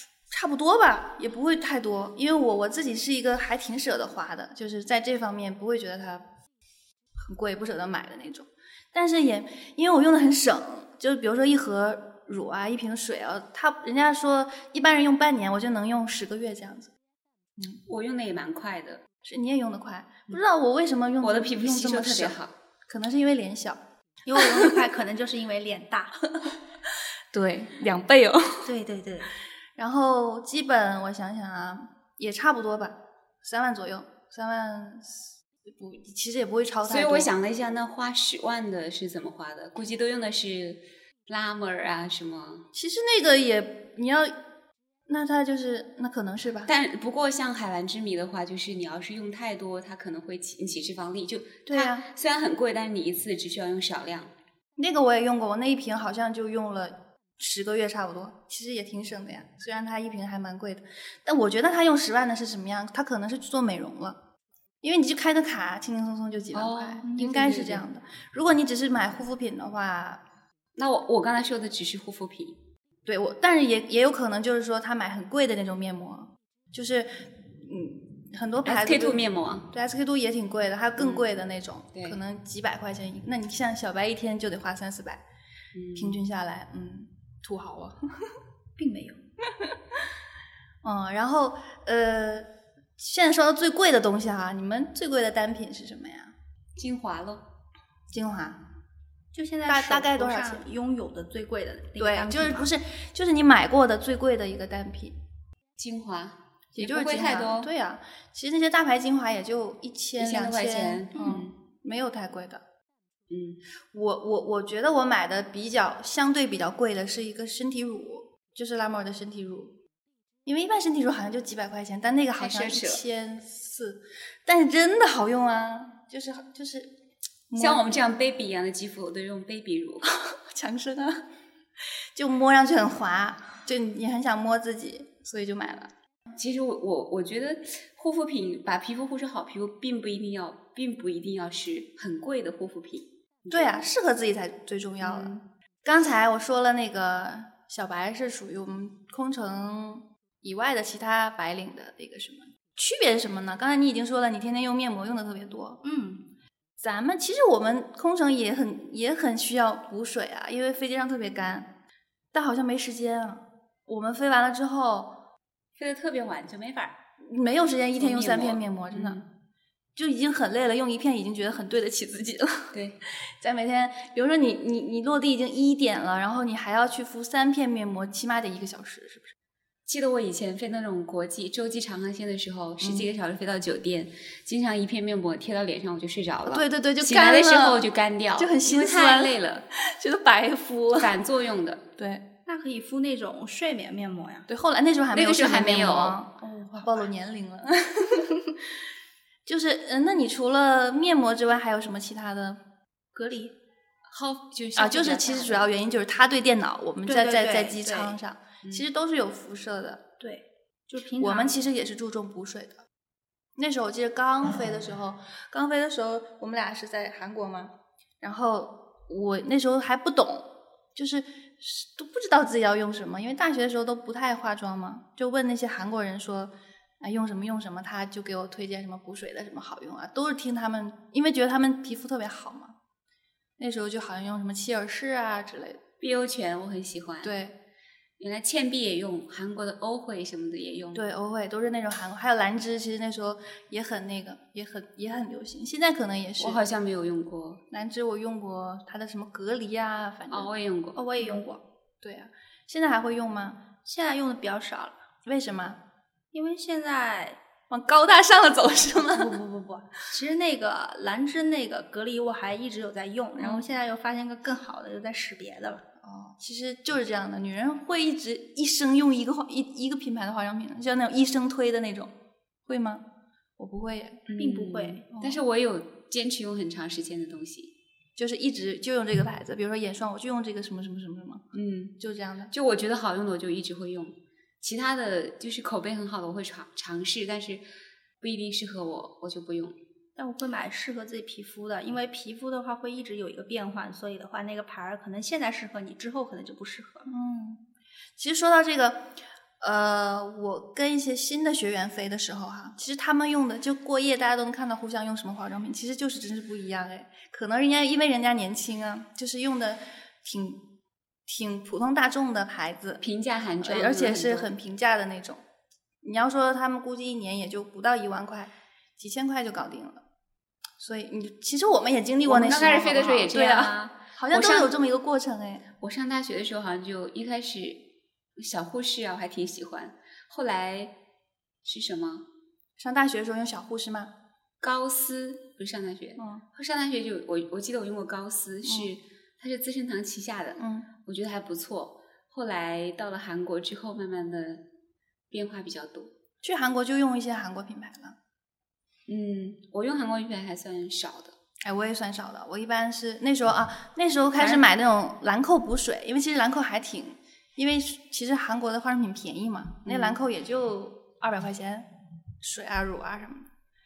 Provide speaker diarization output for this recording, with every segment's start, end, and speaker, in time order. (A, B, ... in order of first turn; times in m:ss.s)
0:00.3-0:06.2 A
0:07.2-0:16.9 A
0:17.9-0:19.0 B
0:19.2-0:23.8 A
0:21.2-0:22.5 B
0:24.3-0:26.2 C
0:24.4-0:24.7 A
0:27.3-0:28.7 A
0:28.6-0:29.3 C
0:29.8-0:37.3 A
0:36.8-0:42.6 B
0:42.7-0:44.3 A
0:45.1-0:46.7 A
0:46.7-0:54.3 B
0:51.7-0:52.0 A
0:54.8-1:04.2 A
1:04.8-1:10.2 A
1:06.5-1:07.8 B
1:10.7-1:12.6 B
1:13.0-1:25.2 A
1:18.6-1:19.7 B
1:21.0-1:21.3 B
1:25.7-1:26.2 B
1:26.0-1:28.0 A
1:28.8-1:29.2 C
1:30.8-1:36.3 A
1:36.8-1:37.4 B
1:38.1-1:38.6 A
1:39.3-1:42.7 C
1:39.7-1:40.6 A
1:42.0-1:45.2 A
1:45.8-1:47.7 B
1:46.8-1:52.6 A
1:50.2-1:51.5 B
1:53.3-1:53.6 B
1:53.9-1:59.7 A
2:00.5-2:06.9 A
2:02.4-2:03.0 B
2:07.5-2:08.0 A
2:07.6-2:10.1 B
2:10.1-2:11.2 A
2:12.2-2:15.9 A
2:16.3-2:23.9 B
2:23.5-2:25.3 A
2:25.0-2:25.4 B
2:25.8-2:35.8 A
2:35.8-2:36.3 C
2:36.8-2:41.7 A
2:42.3-2:45.1 A
2:45.8-2:47.0 B
2:47.2-2:49.2 A
2:48.0-2:49.2 B
2:50.0-2:52.7 A
2:53.4-2:59.3 A
2:59.8-3:09.6 B
3:02.8-3:03.1 A
3:06.5-3:11.1 A
3:11.0-3:11.8 B
3:12.0-3:12.2 A
3:12.5-3:14.5 C
3:14.5-3:18.4 A
3:15.1-3:16.2 B
3:16.4-3:17.1 C
3:19.5-3:22.6 A
3:23.2-3:23.5 A
3:24.1-3:25.6 B
3:24.8-3:30.0 A
3:27.0-3:28.2 C
3:30.2-3:31.5 C
3:31.2-3:32.8 A
3:33.6-3:52.7 A
3:53.6-3:55.8 A
3:56.0-3:57.3 B
3:57.2-3:57.6 A
3:58.2-4:01.0 B
4:00.9-4:06.6 A
4:06.4-4:07.6 B
4:07.7-4:10.5 A
4:10.3-4:11.0 B
4:11.0-4:11.6 C
4:12.0-4:13.6 A
4:13.8-4:15.0 C
4:15.2-4:15.8 A
4:16.3-4:17.4 C
4:17.7-4:19.4 A
4:19.2-4:25.8 C
4:26.0-4:32.1 A
4:32.7-4:33.0 A
4:33.6-4:34.2 A
4:34.3-4:37.7 B
4:34.4-4:35.0 C
4:35.1-4:35.4 A
4:38.2-4:41.4 A
4:41.5-4:42.0 B
4:42.0-4:42.5 A
4:42.5-4:47.6 B
4:48.2-4:49.8 B
4:50.2-4:57.1 C
4:57.1-4:57.6 A
4:58.2-4:59.0 A
4:59.6-5:10.6 A
5:11.3-5:13.0 A
5:13.0-5:14.5 B
5:13.6-5:15.4 A
5:16.0-5:20.0 A
5:20.8-5:25.6 A
5:22.2-5:24.7 B
5:25.8-5:27.8 B
5:28.4-5:30.9 B
5:31.6-5:32.2 B
5:32.8-5:34.1 A
5:34.6-5:44.6 B
5:36.2-5:36.4 A
5:40.6-5:40.9 A
5:45.3-5:46.1 B
5:46.4-5:48.2 A
5:49.1-5:51.4 B
5:51.6-6:01.9 A
5:54.4-5:54.6 B
5:59.9-6:00.2 B
6:02.4-6:03.5 A